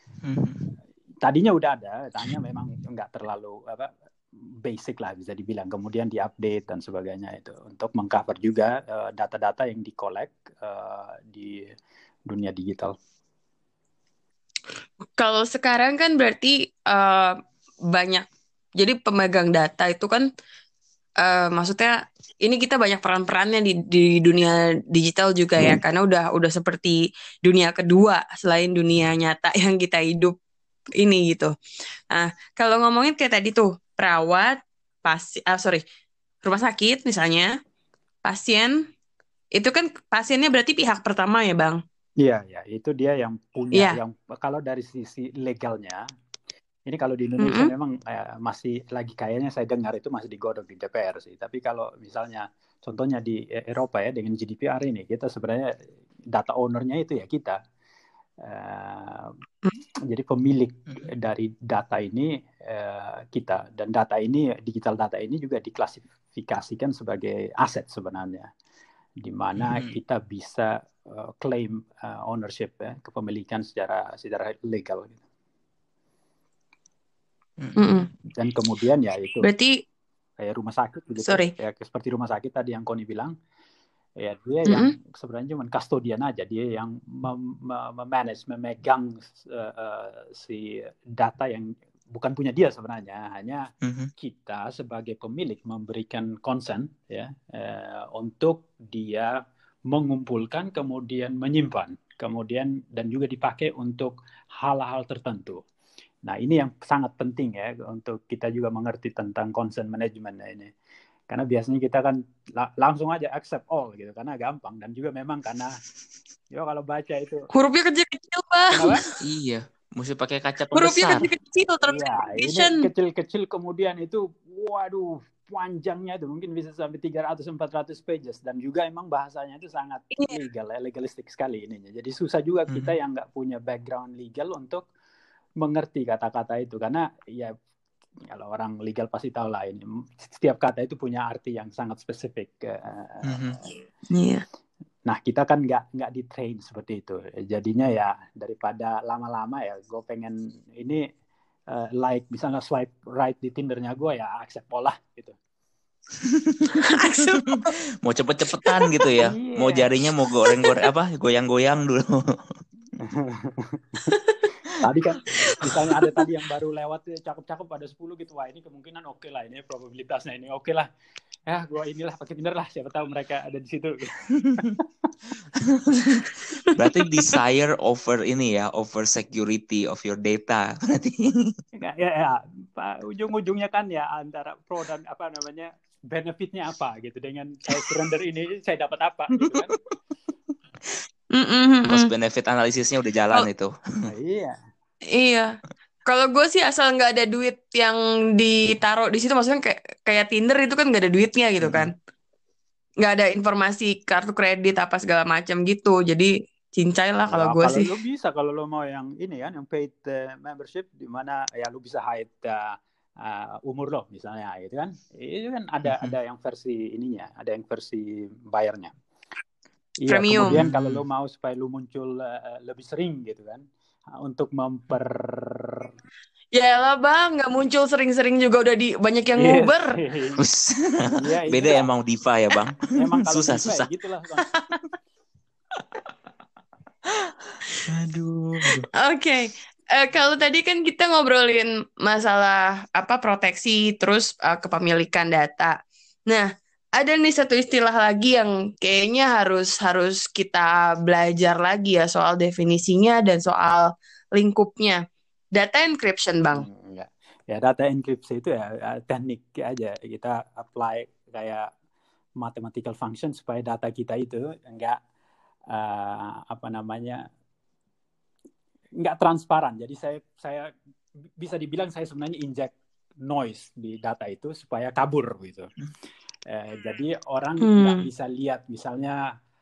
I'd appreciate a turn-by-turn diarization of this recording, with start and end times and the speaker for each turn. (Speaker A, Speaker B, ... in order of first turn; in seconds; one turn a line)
Speaker A: 0.2-0.7
Speaker B: 1.2-11.7
Speaker B: 12.3-12.9
Speaker C: 15.2-17.4
Speaker C: 17.9-18.2
Speaker C: 18.8-20.3
Speaker C: 21.2-30.4
Speaker C: 31.0-31.5
Speaker C: 32.1-35.8
Speaker C: 36.4-37.5
Speaker C: 38.3-38.9
Speaker C: 39.5-41.8
Speaker B: 42.2-46.0
Speaker B: 46.9-55.7
Speaker C: 47.4-47.7
Speaker B: 56.3-57.6
Speaker B: 58.4-59.3
Speaker B: 60.1-68.5
Speaker B: 69.2-75.2
Speaker A: 69.6-70.0
Speaker C: 77.8-78.1
Speaker B: 78.3-79.5
Speaker C: 79.4-79.8
Speaker B: 80.4-83.3
Speaker C: 81.2-81.5
Speaker B: 84.2-93.7
Speaker A: 93.8-94.1
Speaker B: 94.2-99.3
Speaker B: 99.9-105.6
Speaker B: 106.2-110.7
Speaker B: 111.3-115.8
Speaker B: 116.5-117.5
Speaker C: 117.5-119.0
Speaker B: 118.7-119.0
Speaker A: 119.2-121.3
Speaker C: 120.8-122.8
Speaker B: 121.8-134.9
Speaker A: 132.7-132.9
Speaker B: 135.6-137.5
Speaker B: 138.3-143.6
Speaker A: 143.3-143.6
Speaker C: 144.1-144.4
Speaker B: 145.1-151.0
Speaker B: 151.7-155.4
Speaker A: 156.3-156.7
Speaker C: 156.8-157.8
Speaker A: 157.3-162.5
Speaker C: 158.7-159.2
Speaker B: 159.2-159.9
Speaker B: 163.0-164.1
Speaker B: 164.8-170.9
Speaker B: 171.5-174.8
Speaker A: 174.4-174.7
Speaker A: 175.6-181.5
Speaker B: 181.8-189.7
Speaker A: 189.4-189.7
Speaker C: 191.3-192.1
Speaker A: 191.9-193.7
Speaker B: 194.1-194.6
Speaker C: 195.1-195.5
Speaker C: 196.1-201.9
Speaker A: 201.6-201.9
Speaker C: 203.0-207.9
Speaker B: 207.3-218.9
Speaker A: 215.9-216.2
Speaker B: 220.0-225.9
Speaker C: 220.1-220.6
Speaker A: 220.4-221.0
Speaker C: 226.5-230.0
Speaker B: 229.4-230.4
Speaker A: 230.4-233.9
Speaker B: 231.2-231.9
Speaker B: 232.9-234.5
Speaker A: 237.2-238.9
Speaker C: 238.9-245.8
Speaker C: 247.0-255.0
Speaker C: 255.5-256.7
Speaker B: 256.5-261.7
Speaker B: 262.4-265.0
Speaker B: 265.7-267.3
Speaker B: 269.0-270.7
Speaker B: 271.4-275.7
Speaker B: 276.5-279.2
Speaker C: 277.6-278.0